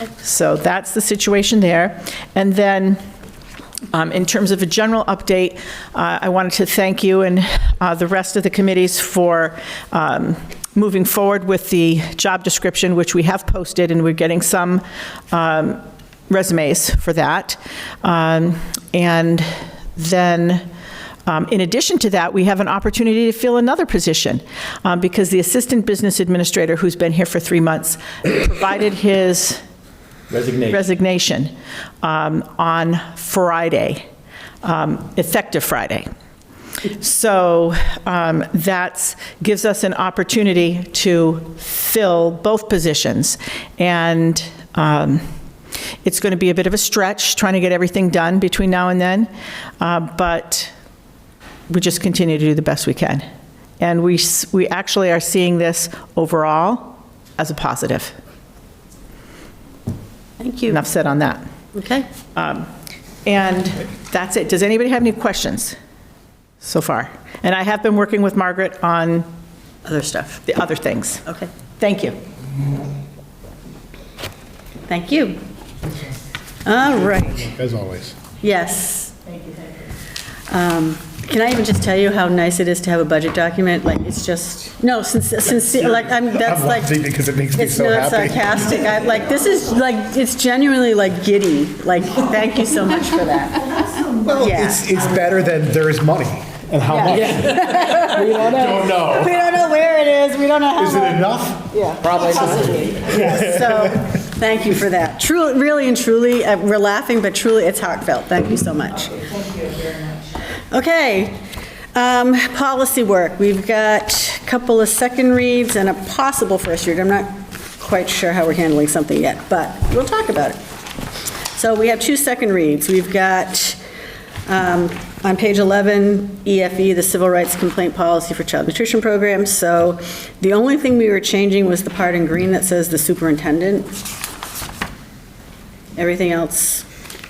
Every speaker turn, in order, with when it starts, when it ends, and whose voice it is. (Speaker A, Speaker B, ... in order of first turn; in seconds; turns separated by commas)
Speaker A: 0.2-3.0, Speaker A: 3.9-14.8, Speaker A: 15.3-20.6, Speaker A: 21.3-29.6, Speaker B: 30.3-30.8, Speaker A: 30.7-34.0, Speaker A: 34.6-36.1, Speaker A: 36.9-45.2, Speaker A: 46.0-49.3, Speaker A: 49.8-50.7, Speaker A: 51.7-53.2, Speaker A: 53.8-58.1, Speaker C: 60.4-60.8, Speaker A: 60.7-61.4, Speaker C: 61.7-62.0, Speaker A: 62.3-62.7, Speaker A: 63.2-65.8, Speaker A: 66.6-69.3, Speaker C: 69.9-70.4, Speaker A: 70.5-71.2, Speaker A: 71.8-72.2, Speaker C: 74.9-75.4, Speaker C: 76.6-77.4, Speaker B: 77.4-78.2, Speaker C: 78.4-79.2, Speaker C: 80.5-86.9, Speaker B: 85.8-88.6, Speaker C: 87.5-93.8, Speaker B: 94.2-97.8, Speaker C: 94.4-94.8, Speaker C: 96.9-109.3, Speaker B: 98.3-99.4, Speaker B: 100.8-103.9, Speaker C: 110.7-111.4, Speaker C: 111.9-120.6, Speaker C: 121.5-123.8, Speaker C: 124.5-133.9, Speaker C: 136.0-136.8